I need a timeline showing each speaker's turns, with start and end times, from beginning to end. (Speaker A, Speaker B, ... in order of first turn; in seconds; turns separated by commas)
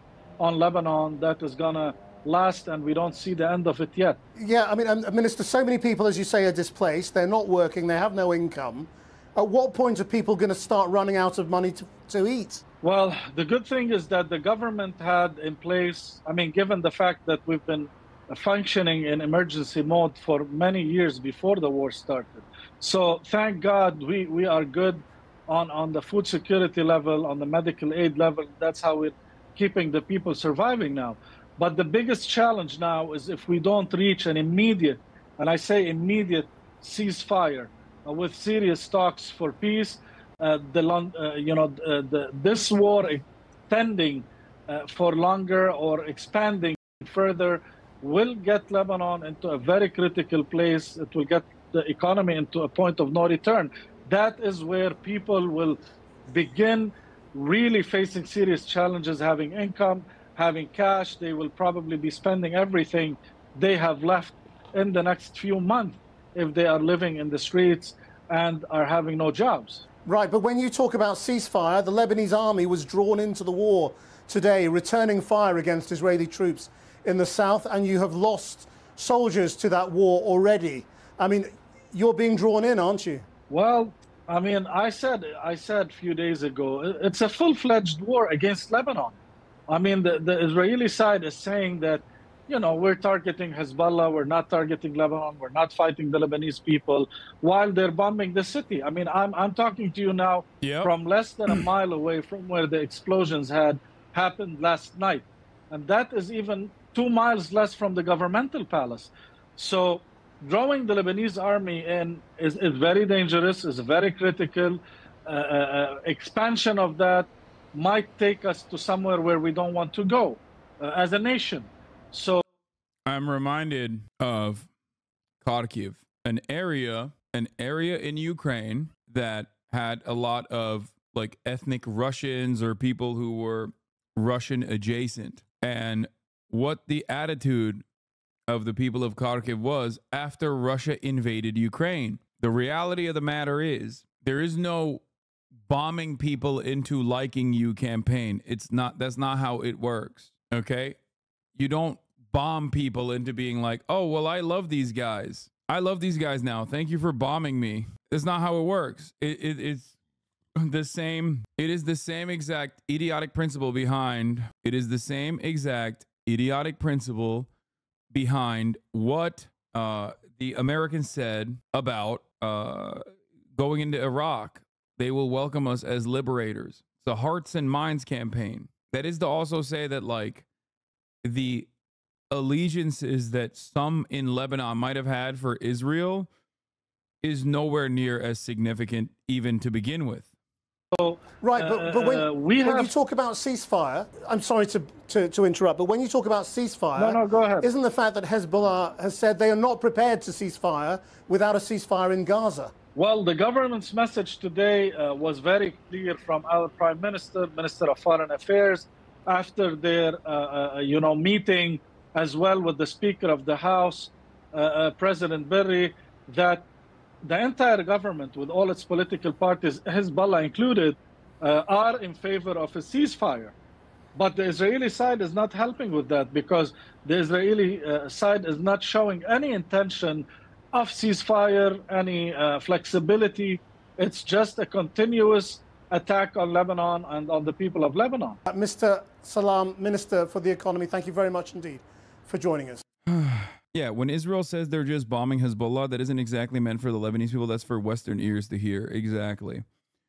Speaker A: 0.4-4.2, Speaker B: 4.3-12.6, Speaker A: 12.8-69.8, Speaker B: 70.0-83.2, Speaker A: 83.5-89.2, Speaker A: 89.7-122.4, Speaker C: 100.6-100.9, Speaker C: 123.0-124.7, Speaker C: 125.4-137.8, Speaker C: 138.5-145.0, Speaker C: 145.6-151.0, Speaker C: 151.6-159.9, Speaker C: 160.6-167.5, Speaker C: 168.1-173.0, Speaker C: 173.5-180.4, Speaker C: 181.2-181.7, Speaker C: 182.3-186.3, Speaker C: 187.2-190.3, Speaker A: 190.9-192.9, Speaker B: 191.4-202.7, Speaker A: 196.9-197.7, Speaker A: 202.9-216.7, Speaker A: 217.2-223.5, Speaker A: 224.2-238.4, Speaker B: 238.4-242.8, Speaker C: 243.1-249.6